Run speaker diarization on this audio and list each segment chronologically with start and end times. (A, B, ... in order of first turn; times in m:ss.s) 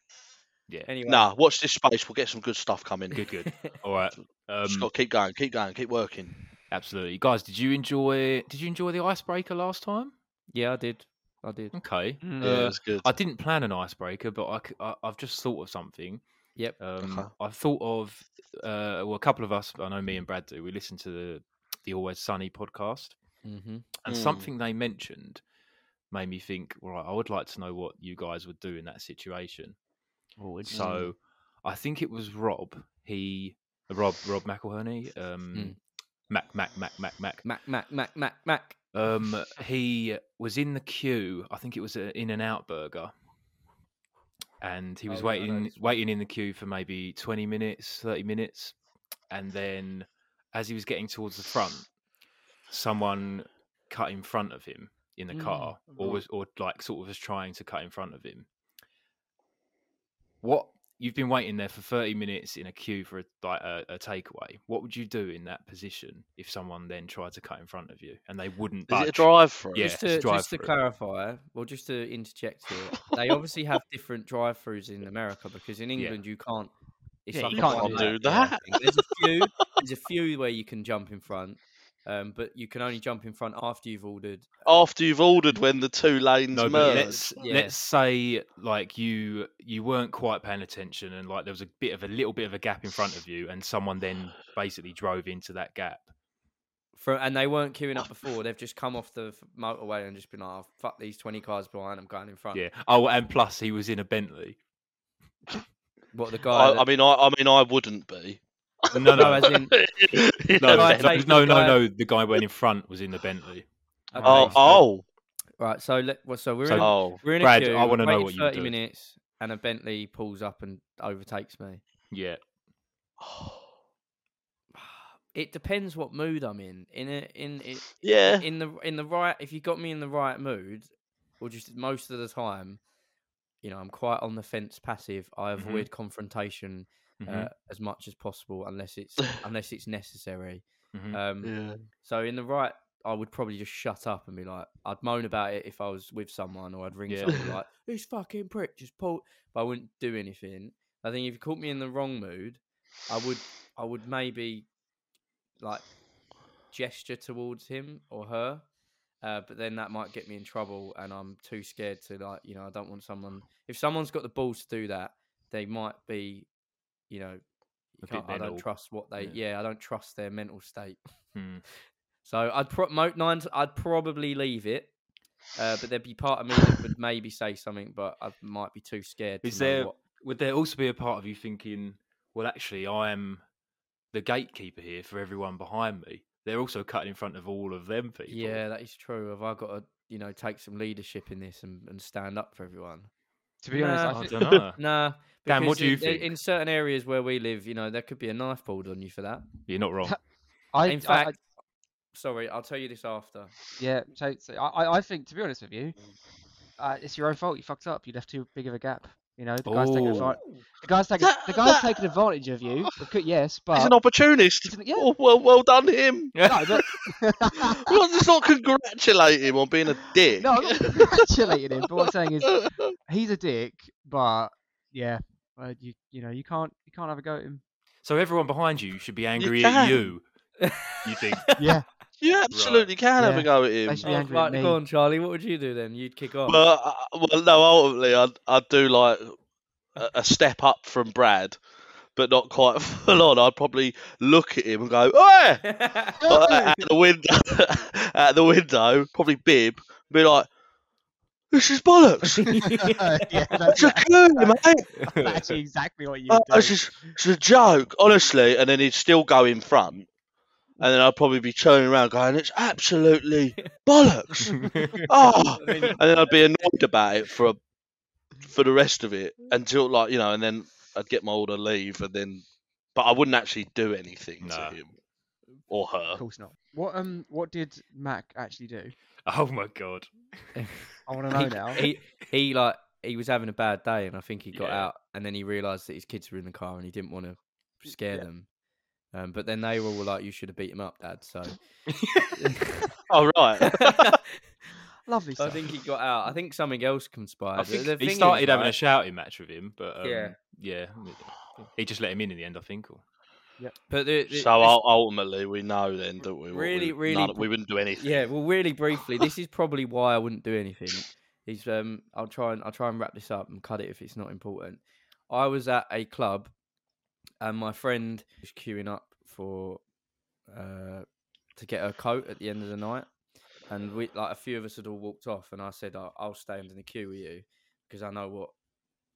0:00.8-0:01.3 A
0:01.0-0:03.2 B
0:03.2-0:04.9 C
0:03.3-0:03.8 A
0:04.6-0:06.3 B
0:06.7-0:10.1 C
0:10.5-0:11.7 A
0:11.7-0:16.2 C
0:12.2-0:12.6 D
0:12.4-0:13.1 B
0:16.8-0:23.2 C
0:17.0-0:17.3 B
0:23.4-0:23.9 A
0:24.0-0:25.4 C
0:24.1-0:24.5 B
0:26.1-0:29.8 C
0:30.4-0:31.0 A
0:30.7-0:35.8 C
0:30.7-0:31.1 B
0:36.3-0:37.4 C
0:37.4-0:38.8 A
0:38.9-0:43.1 C
0:44.6-0:48.8 C
0:45.1-0:46.0 A
0:49.3-0:51.9 C
0:52.7-0:58.5 C
0:55.4-0:55.7 A
0:55.4-0:56.1 D
1:00.4-1:10.7 C
1:08.9-1:09.8 B
1:09.8-1:16.7 A
1:17.2-1:24.8 A
1:17.3-1:18.2 D
1:17.5-1:19.2 B
1:24.6-1:27.3 B
1:26.5-1:36.1 C
1:26.8-1:27.8 A
1:37.0-1:42.6 A
1:42.5-1:44.6 C
1:46.1-1:46.9 A
1:46.5-1:51.2 B
1:48.9-1:49.5 C
1:49.1-1:49.7 A
1:50.6-1:54.8 C
1:50.7-1:51.8 A
1:54.1-1:54.6 A
1:54.1-1:54.5 D
1:54.2-1:55.0 B
1:55.6-2:01.8 A
1:56.6-1:58.8 C
1:56.8-1:57.2 B
2:02.1-2:02.4 C
2:03.2-2:03.6 B
2:04.8-2:12.8 A
2:08.0-2:08.4 B
2:13.6-2:34.7 A
2:15.6-2:15.9 C
2:17.2-2:17.5 C
2:20.9-2:21.2 C
2:21.4-2:21.8 B
2:27.1-2:27.4 C
2:35.6-2:35.9 A
2:36.7-2:38.6 A
2:39.2-2:46.5 A
2:47.1-2:47.4 A
2:48.0-2:51.0 A
2:48.0-2:49.4 C
2:51.3-2:51.6 C
2:52.2-2:54.9 A
2:55.5-3:00.0 A
2:59.4-3:03.4 C
3:04.1-3:08.6 C
3:08.3-3:13.1 A
3:13.6-3:14.6 D
3:13.7-3:19.4 A
3:14.1-3:14.8 C
3:15.4-3:16.3 C
3:19.7-3:20.2 C
3:20.7-3:21.4 D
3:20.8-3:21.4 A
3:22.1-3:23.5 A
3:23.8-3:26.0 D
3:26.8-3:34.0 D
3:29.6-3:30.3 C
3:30.4-3:30.6 A
3:31.2-3:31.9 B
3:33.7-3:37.0 B
3:34.6-3:35.1 D
3:36.4-3:36.6 C
3:36.4-3:38.0 D
3:37.6-3:41.2 B
3:40.4-3:47.6 D
3:42.5-3:42.8 B
3:48.0-3:50.2 C
3:49.4-3:50.1 B
3:50.6-3:51.8 A
3:51.0-3:51.4 C
3:51.6-3:51.8 D
3:52.2-3:54.1 B
3:52.5-3:52.9 C
3:53.2-3:54.8 D
3:54.0-3:56.6 A
3:56.5-3:59.4 B
3:59.9-4:01.6 B
4:02.1-4:10.5 B
4:05.7-4:06.2 A
4:06.3-4:06.8 D
4:11.5-4:12.6 B
4:12.4-4:13.7 A
4:12.6-4:17.1 D
4:13.7-4:15.0 B
4:15.0-4:15.6 C
4:16.3-4:20.1 B
4:20.8-4:27.6 B
4:24.6-4:25.0 C
4:25.4-4:26.7 A
4:28.4-4:34.9 B
4:34.4-4:34.8 C
4:35.7-4:36.2 B
4:36.2-4:38.9 D
4:39.2-4:40.5 C
4:41.1-4:41.8 D
4:41.3-4:48.5 A
4:44.5-4:44.9 C
4:49.1-4:51.6 A
4:51.9-4:52.3 C
4:52.4-4:52.9 A
4:53.1-4:54.0 B
4:53.7-4:54.4 A
4:55.0-4:55.7 D
4:55.4-4:58.7 A
4:57.6-5:03.0 C
5:00.0-5:00.3 A
5:03.9-5:04.8 A
5:04.3-5:08.2 B
5:06.5-5:16.5 A
5:17.4-5:19.8 A
5:20.5-5:23.1 A
5:23.7-5:28.5 A